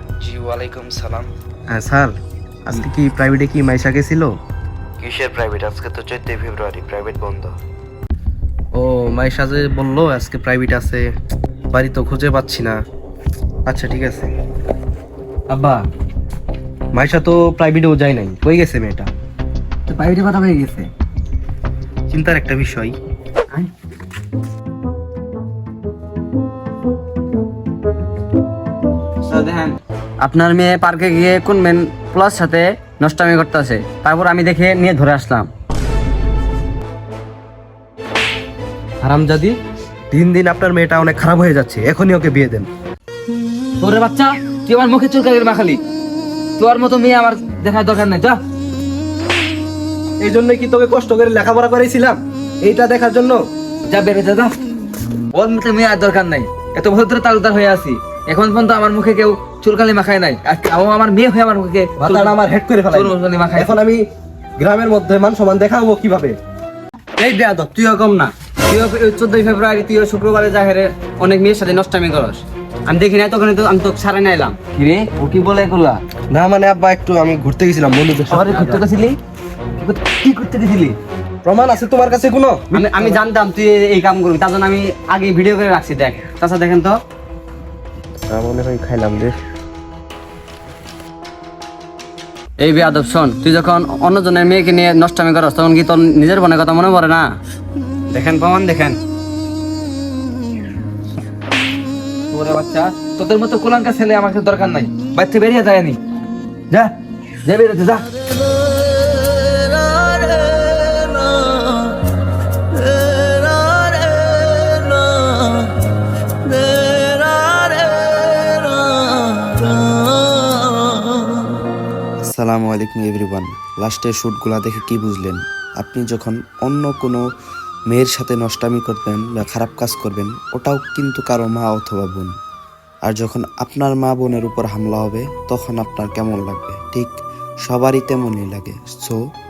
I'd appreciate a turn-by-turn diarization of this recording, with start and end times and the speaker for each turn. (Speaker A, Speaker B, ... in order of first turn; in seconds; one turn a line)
Speaker A: 0.2-1.3
Speaker B: 1.7-2.1
Speaker B: 2.6-4.3
Speaker A: 5.0-7.6
Speaker B: 8.7-11.1
Speaker B: 11.7-12.8
Speaker B: 13.7-14.3
Speaker B: 15.5-15.8
Speaker B: 16.9-19.1
Speaker C: 19.9-20.9
Speaker B: 22.1-22.9
Speaker D: 29.3-35.5
Speaker B: 39.0-39.5
Speaker B: 40.1-42.7
Speaker C: 43.8-45.8
Speaker C: 46.6-48.4
Speaker B: 50.2-53.4
Speaker C: 53.9-54.5
Speaker C: 55.3-62.4
Speaker B: 62.0-64.0
Speaker C: 62.9-63.8
Speaker B: 64.6-66.4
Speaker D: 67.2-74.6
Speaker C: 74.7-76.0
Speaker B: 76.3-78.8
Speaker C: 78.3-79.2
Speaker C: 79.8-81.0
Speaker B: 81.4-83.2
Speaker D: 82.7-87.0
Speaker B: 88.3-89.4
Speaker D: 92.6-97.3
Speaker D: 98.1-99.0
Speaker C: 102.3-106.0
Speaker C: 106.7-108.1
Speaker C: 109.8-111.7
Speaker C: 113.0-114.4
Speaker C: 116.5-117.8
Speaker A: 122.2-127.2
Speaker A: 127.9-132.3
Speaker A: 133.0-139.2